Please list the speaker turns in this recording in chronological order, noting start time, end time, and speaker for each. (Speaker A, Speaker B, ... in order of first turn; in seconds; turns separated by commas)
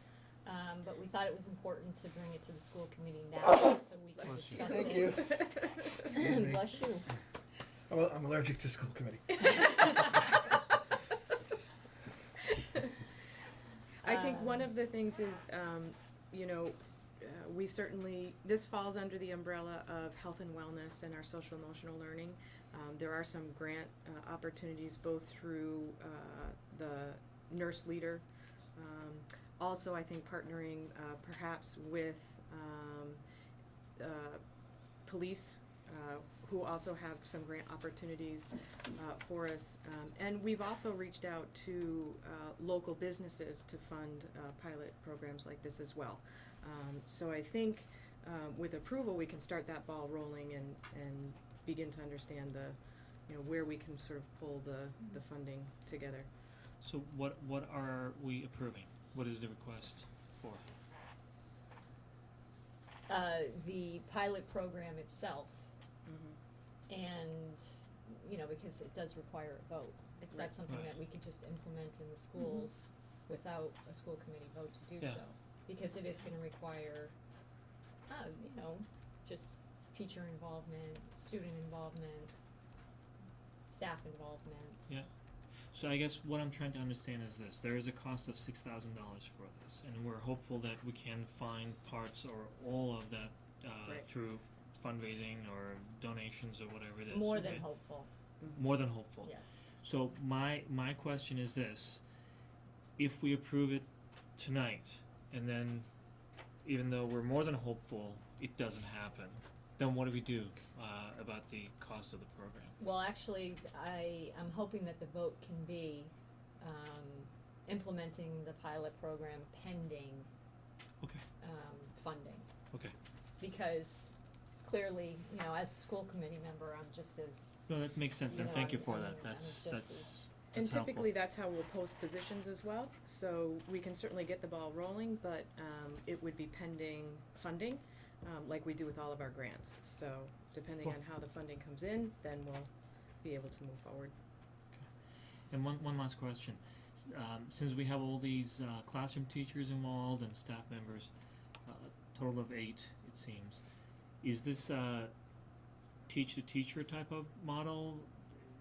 Speaker A: 0.5-7.1, Speaker B: 4.2-4.7, Speaker C: 4.5-5.5, Speaker C: 6.1-6.7, Speaker C: 7.9-10.4, Speaker D: 14.0-28.2, Speaker A: 14.0-14.7, Speaker D: 28.8-33.2, Speaker D: 34.0-34.4, Speaker D: 35.0-56.3, Speaker B: 56.8-60.6, Speaker A: 63.1-65.7, Speaker D: 66.1-66.4, Speaker A: 66.9-77.1, Speaker A: 78.1-82.3, Speaker A: 83.7-84.8, Speaker B: 85.7-97.7, Speaker A: 97.1-98.1, Speaker B: 98.5-99.3, Speaker A: 99.2-99.7, Speaker B: 99.8-102.0, Speaker B: 103.0-105.9, Speaker B: 106.6-112.8, Speaker A: 112.8-120.3, Speaker A: 121.4-122.5, Speaker A: 123.4-127.6, Speaker B: 127.7-131.1, Speaker A: 128.3-130.3, Speaker D: 130.5-142.7, Speaker D: 143.2-144.1, Speaker B: 145.5-151.1, Speaker B: 151.7-153.6, Speaker B: 154.2-155.1, Speaker B: 156.1-158.1